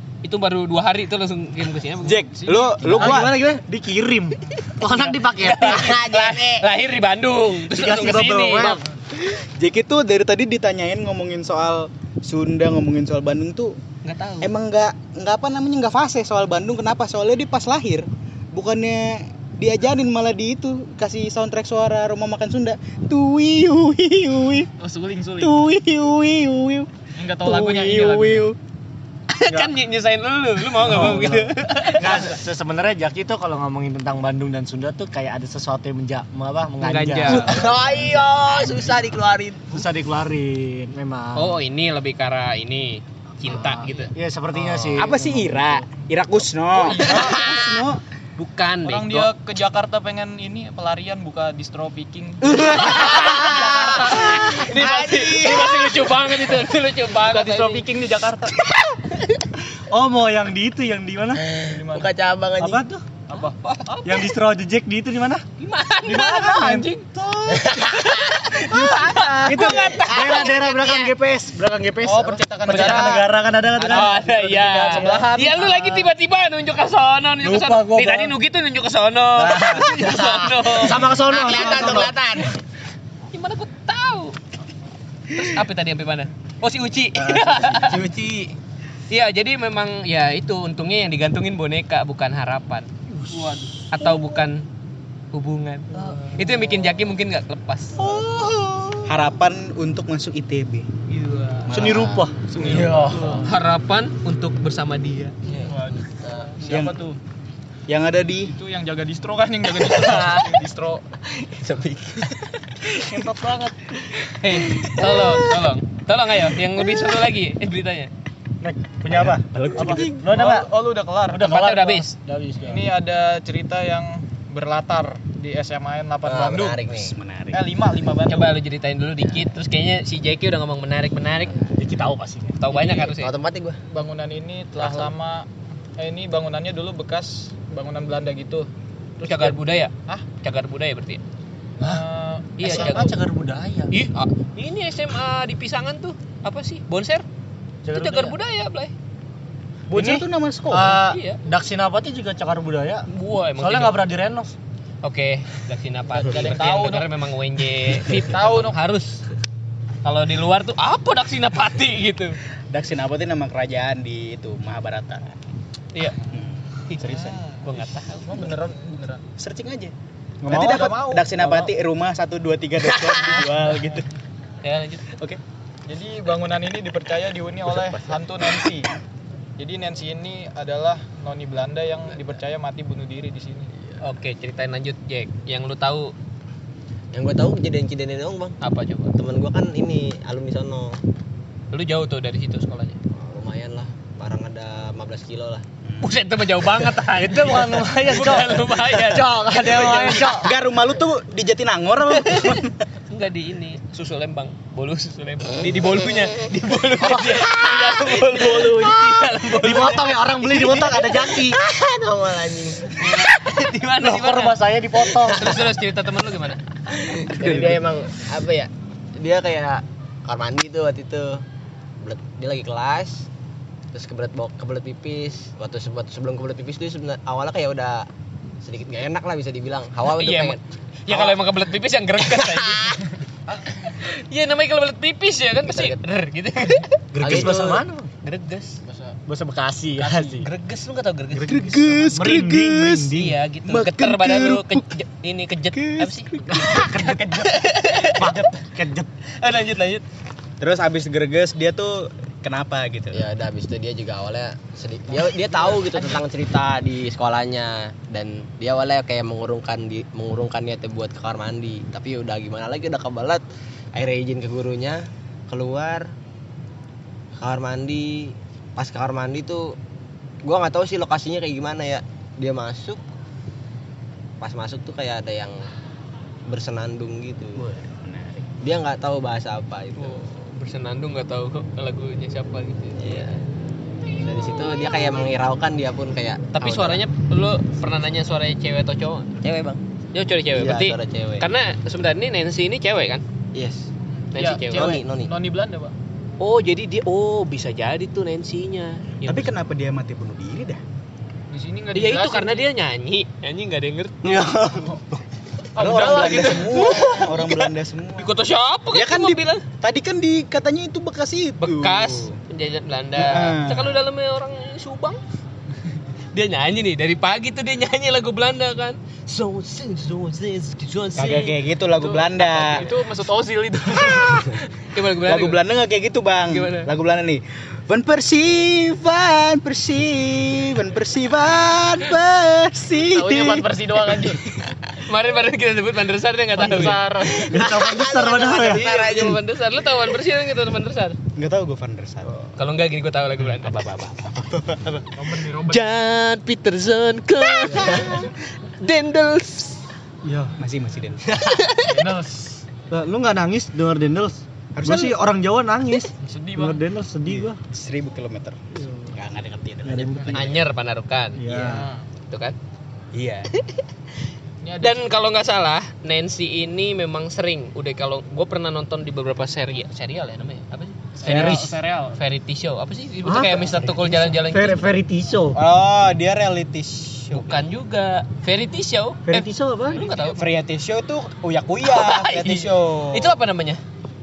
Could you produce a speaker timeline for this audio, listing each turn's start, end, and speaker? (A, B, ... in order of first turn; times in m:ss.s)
0:00.2-0:02.3 A
0:02.0-0:03.4 B
0:02.3-0:03.2 C
0:02.9-0:06.0 D
0:05.3-0:08.8 A
0:05.6-0:06.7 E
0:07.7-0:08.8 D
0:09.4-0:13.8 B
0:14.0-0:14.5 A
0:14.4-0:24.7 B
0:24.8-0:25.6 C
0:25.4-0:26.9 B
0:27.2-0:28.5 C
0:27.4-0:28.6 B
0:29.3-0:32.4 A
0:30.8-0:37.9 D
0:30.8-0:31.5 B
0:36.8-0:37.7 A
0:37.3-0:39.8 E
0:37.6-0:37.9 C
0:39.7-0:41.6 D
0:41.4-0:44.1 A
0:43.4-0:45.8 D
0:44.6-0:48.0 B
0:46.7-0:47.6 C
0:47.0-0:47.8 A
0:48.4-0:49.3 A
0:48.8-0:58.6 C
0:52.4-0:53.6 B
0:52.7-0:57.8 A
0:53.2-0:55.8 E
0:59.9-1:01.4 D
1:01.4-1:02.8 E
1:01.6-1:02.1 C
1:02.6-1:03.0 D
1:03.3-1:03.6 C
1:03.4-1:04.3 A
1:04.0-1:05.4 D
1:05.6-1:11.1 A
1:06.0-1:07.6 D
1:07.5-1:08.4 E
1:08.7-1:09.8 B
1:09.4-1:15.3 D
1:12.0-1:13.3 C
1:12.7-1:13.2 A
1:13.8-1:21.1 A
1:13.8-1:16.1 C
1:17.4-1:18.4 D
1:19.4-1:19.9 B
1:19.8-1:20.5 E
1:20.7-1:22.2 D
1:21.2-1:22.6 E
1:23.3-1:24.4 A
1:25.4-1:28.1 A
1:27.2-1:28.5 B
1:27.7-1:28.5 E
1:29.1-1:32.9 A
1:33.1-1:33.9 D
1:33.3-1:33.7 C
1:33.9-1:34.7 A
1:35.3-1:38.2 A
1:36.0-1:36.9 E
1:38.0-1:38.8 D
1:38.1-1:39.0 E
1:39.0-1:40.9 B
1:41.1-1:42.1 A
1:41.7-1:43.0 B
1:41.7-1:43.4 D
1:42.4-1:43.4 C
1:42.9-1:45.4 A
1:43.0-1:43.4 E
1:45.5-1:46.5 E
1:45.6-1:46.0 C
1:46.6-1:47.1 C
1:46.6-1:46.9 A
1:46.7-1:47.2 B
1:47.9-1:48.5 B
1:48.5-1:51.0 C
1:50.0-1:50.4 A
1:50.1-1:50.4 E
1:51.3-1:53.1 E
1:53.1-1:53.7 D
1:54.2-1:58.1 A
1:54.6-1:55.5 E
1:58.6-2:00.7 D
1:59.1-2:00.1 B
1:59.7-2:01.5 C
2:01.3-2:02.9 D
2:01.4-2:02.1 A
2:02.6-2:06.8 C
2:06.2-2:07.2 E
2:06.9-2:07.6 B
2:07.5-2:08.5 C
2:08.3-2:11.6 A
2:11.8-2:12.6 D
2:12.6-2:13.3 A
2:12.7-2:13.8 E
2:13.9-2:15.5 C
2:14.8-2:15.1 A
2:16.0-2:18.7 C
2:19.2-2:19.6 C
2:19.2-2:21.2 A
2:21.8-2:22.0 D
2:21.8-2:23.1 C
2:22.6-2:23.1 A
2:22.6-2:23.9 D
2:23.9-2:27.3 A
2:27.8-2:28.4 D
2:27.9-2:28.9 A
2:29.9-2:31.0 B
2:29.9-2:33.1 D
2:31.0-2:31.4 A
2:33.1-2:34.0 A
2:33.6-2:34.6 D
2:35.0-2:39.2 A
2:36.2-2:37.2 C
2:38.0-2:38.8 C
2:40.0-2:42.4 A
2:42.7-2:45.4 B
2:46.3-2:47.4 B
2:47.0-2:47.7 C
2:47.6-2:48.5 A
2:48.2-2:49.2 C
2:49.4-2:49.9 B
2:50.4-2:51.7 D
2:50.5-2:51.3 C
2:50.5-2:54.1 B
2:54.6-2:55.1 A
2:55.9-2:58.9 C
2:59.6-3:03.7 C
3:04.0-3:06.1 A
3:07.1-3:08.6 E
3:08.6-3:09.2 A
3:09.2-3:11.0 E
3:11.7-3:13.0 A
3:13.1-3:15.6 E
3:15.9-3:16.2 B
3:16.0-3:20.3 A
3:17.2-3:20.5 D
3:19.8-3:22.7 B
3:22.3-3:22.6 A
3:23.1-3:30.1 A
3:27.0-3:27.6 D
3:27.5-3:29.4 E
3:29.6-3:31.6 D
3:30.5-3:33.3 E
3:32.9-3:34.6 A
3:34.0-3:35.7 D
3:35.2-3:36.6 A
3:36.9-3:41.4 E
3:37.4-3:37.8 B
3:42.0-3:43.3 E
3:43.9-3:48.1 E
3:48.6-3:51.4 E
3:50.1-3:53.1 A
3:53.7-3:57.0 A
3:55.7-3:56.0 E
3:57.2-3:57.5 B
3:57.2-3:58.1 D
3:57.2-3:57.8 E
3:58.2-3:58.8 A
3:58.8-3:59.2 C
3:59.3-4:00.5 D
4:00.0-4:00.4 C
4:00.4-4:01.9 A
4:01.3-4:04.8 B
4:02.1-4:03.4 D
4:03.1-4:08.5 A
4:05.7-4:07.2 B
4:06.5-4:09.1 D
4:09.4-4:10.0 A
4:10.6-4:13.3 B
4:13.1-4:26.1 E
4:27.4-4:29.8 E
4:30.4-4:33.0 E
4:34.4-4:35.6 E
4:36.5-4:37.7 E
4:37.7-4:38.5 B
4:38.6-4:40.2 E
4:40.0-4:43.3 A
4:43.0-4:43.4 E
4:44.2-4:47.0 E
4:46.5-4:49.3 A
4:49.4-4:49.8 E
4:50.1-4:53.2 A
4:50.6-4:51.5 E
4:53.6-4:53.9 E
4:54.3-4:55.9 C
4:54.3-4:55.0 A
4:54.7-4:55.3 E
4:56.4-4:59.5 A
4:59.2-5:00.8 B
5:01.5-5:02.7 C
5:01.9-5:04.3 A
5:04.2-5:05.0 D
5:05.8-5:07.2 C
5:05.8-5:08.3 B
5:06.0-5:09.6 A
5:08.9-5:12.4 B
5:11.6-5:15.2 A
5:13.2-5:14.0 B
5:16.3-5:22.9 A
5:21.2-5:22.9 B
5:22.5-5:24.6 C
5:24.0-5:24.2 B
5:24.9-5:25.6 A
5:25.2-5:34.4 B
5:26.5-5:26.9 A
5:33.1-5:34.5 C
5:34.9-5:37.0 A
5:36.6-5:37.6 C
5:37.3-5:39.4 E
5:37.4-5:38.8 D
5:38.1-5:41.2 A
5:41.4-5:42.4 B
5:42.6-5:44.4 A
5:43.7-5:45.1 B
5:45.2-5:45.8 C
5:45.7-5:49.8 A
5:50.2-5:50.5 D
5:50.4-5:51.4 B
5:51.4-5:51.9 A
5:51.8-5:52.6 C
5:52.9-5:57.6 D
5:54.8-5:55.2 B
5:56.2-5:56.8 C
5:57.3-6:00.6 B
5:59.8-6:00.5 D
6:00.3-6:01.4 A
6:01.4-6:01.9 D
6:01.5-6:01.8 B
6:01.5-6:02.0 C
6:02.3-6:02.6 A
6:03.1-6:03.5 B
6:04.6-6:05.1 C
6:04.8-6:11.6 A
6:11.2-6:12.2 C
6:11.3-6:11.6 B
6:11.3-6:11.7 D
6:12.2-6:14.9 A
6:13.2-6:15.6 D
6:15.6-6:17.6 B
6:17.3-6:20.4 A
6:19.3-6:20.2 D
6:20.1-6:20.4 C
6:20.4-6:23.4 B
6:21.8-6:23.8 A